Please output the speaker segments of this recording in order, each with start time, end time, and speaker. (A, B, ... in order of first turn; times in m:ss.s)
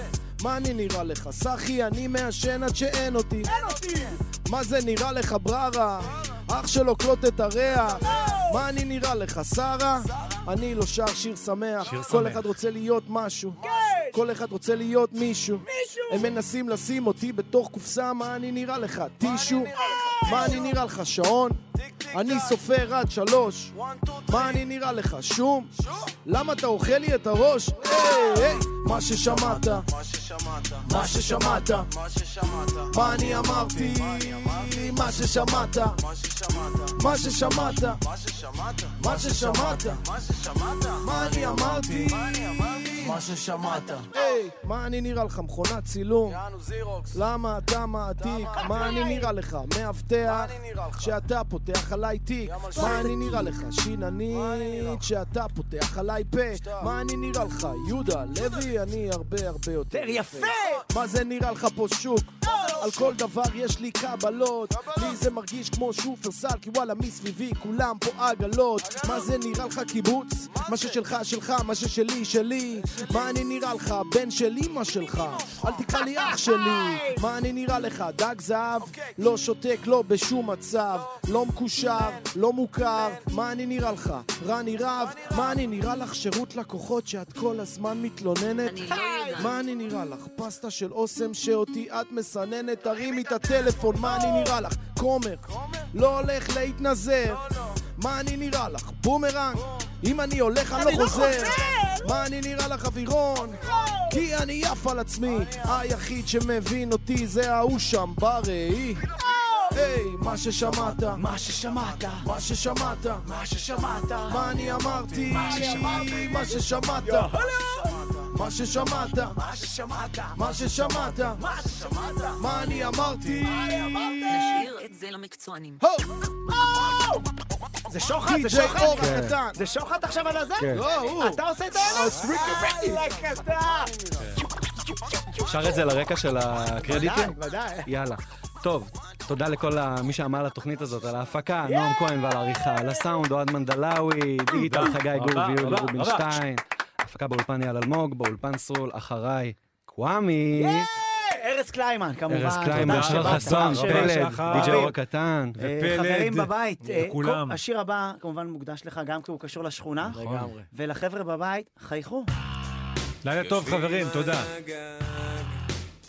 0:00.4-0:03.7 A
0:03.5-0:04.2 B
0:04.3-0:13.6 A
0:08.0-0:08.6 B
0:11.8-0:12.4 C
0:13.6-0:14.2 B
0:14.1-0:23.7 A
0:15.7-0:16.3 B
0:19.8-0:20.7 B
0:24.3-0:29.9 A
0:30.8-0:31.9 A
0:32.9-0:36.0 A
0:36.9-0:38.0 A
0:39.0-0:40.1 A
0:41.0-0:46.5 A
0:47.1-1:37.4 A
0:48.6-0:49.3 B
0:52.7-0:53.5 B
0:59.9-1:00.9 B
1:02.4-1:03.1 B
1:16.0-1:17.2 B
1:28.6-1:29.5 D
1:38.0-1:49.0 A
1:40.8-1:42.1 B
1:43.6-1:44.2 B
1:49.2-1:49.8 B
1:49.7-1:51.2 A
1:50.5-1:52.3 B
1:52.2-1:53.3 A
1:53.2-1:54.6 B
1:54.3-1:57.3 A
1:55.3-1:58.0 B
1:58.3-1:59.4 A
1:59.3-2:02.4 B
2:00.4-2:01.4 A
2:02.4-2:04.5 A
2:03.3-2:04.6 B
2:04.3-2:05.8 D
2:05.8-2:06.1 A
2:06.6-2:07.2 B
2:07.9-2:14.0 B
2:08.2-2:09.6 A
2:08.9-2:09.4 E
2:10.6-2:10.8 E
2:10.7-2:13.0 A
2:14.6-2:15.8 B
2:15.4-2:30.9 E
2:16.8-2:17.9 B
2:21.6-2:22.0 B
2:24.5-2:26.4 C
2:30.6-2:35.0 B
2:32.3-2:35.6 E
2:32.7-2:34.9 C
2:35.6-2:37.6 C
2:35.6-2:40.2 B
2:40.1-2:40.5 E
2:40.1-2:40.7 A
2:40.7-2:42.3 B
2:43.2-2:44.5 C
2:44.2-2:45.1 E